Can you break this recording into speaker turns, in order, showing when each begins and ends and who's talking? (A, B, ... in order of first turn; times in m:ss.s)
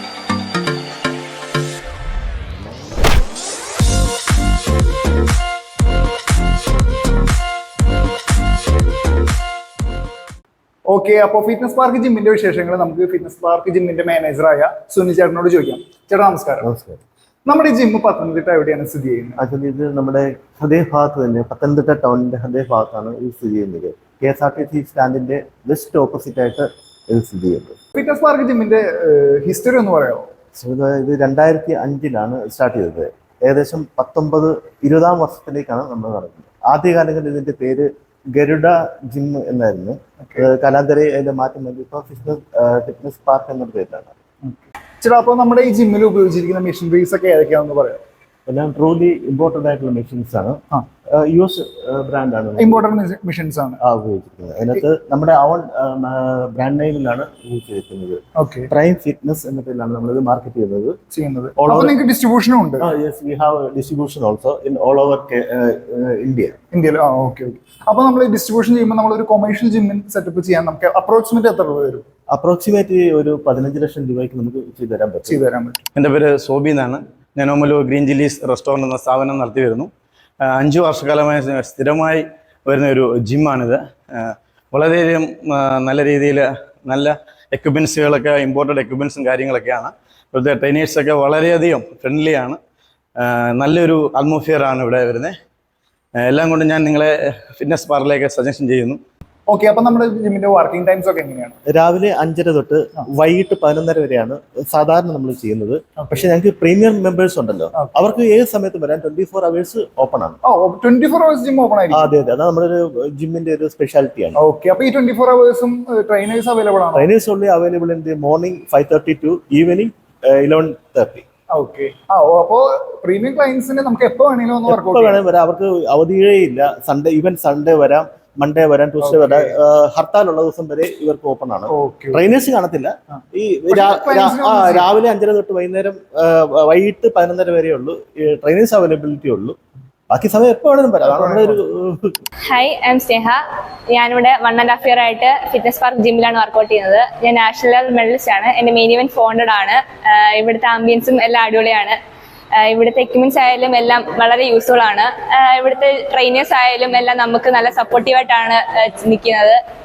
0:10.9-0:16.7 A
0:16.6-0:17.0 B
0:17.5-0:19.4 A
0:19.4-0:27.8 B
0:28.0-0:30.3 A
0:30.6-0:44.2 B
0:44.4-0:48.0 A
0:48.5-0:50.6 B
0:51.1-0:52.9 B
0:52.6-0:53.8 A
0:53.8-1:01.0 B
0:58.4-0:58.7 A
1:01.1-1:02.8 A
1:01.6-1:01.9 B
1:02.8-1:06.6 B
1:06.7-1:12.0 A
1:12.3-1:15.4 B
1:15.3-1:15.9 A
1:16.0-1:19.9 C
1:20.4-1:32.6 C
1:33.2-1:35.4 C
1:36.2-1:39.0 C
1:39.5-1:41.6 A
1:41.7-1:50.4 B
1:46.0-1:46.3 A
1:50.4-1:52.1 A
1:51.9-1:54.4 B
1:54.4-1:57.1 A
1:57.0-2:01.2 B
2:01.5-2:05.2 A
2:04.7-2:19.6 B
2:09.0-2:09.5 A
2:11.7-2:12.2 A
2:13.7-2:14.9 A
2:20.1-2:22.2 B
2:21.0-2:21.6 A
2:22.5-2:23.4 D
2:23.9-2:32.0 D
2:32.6-2:39.6 D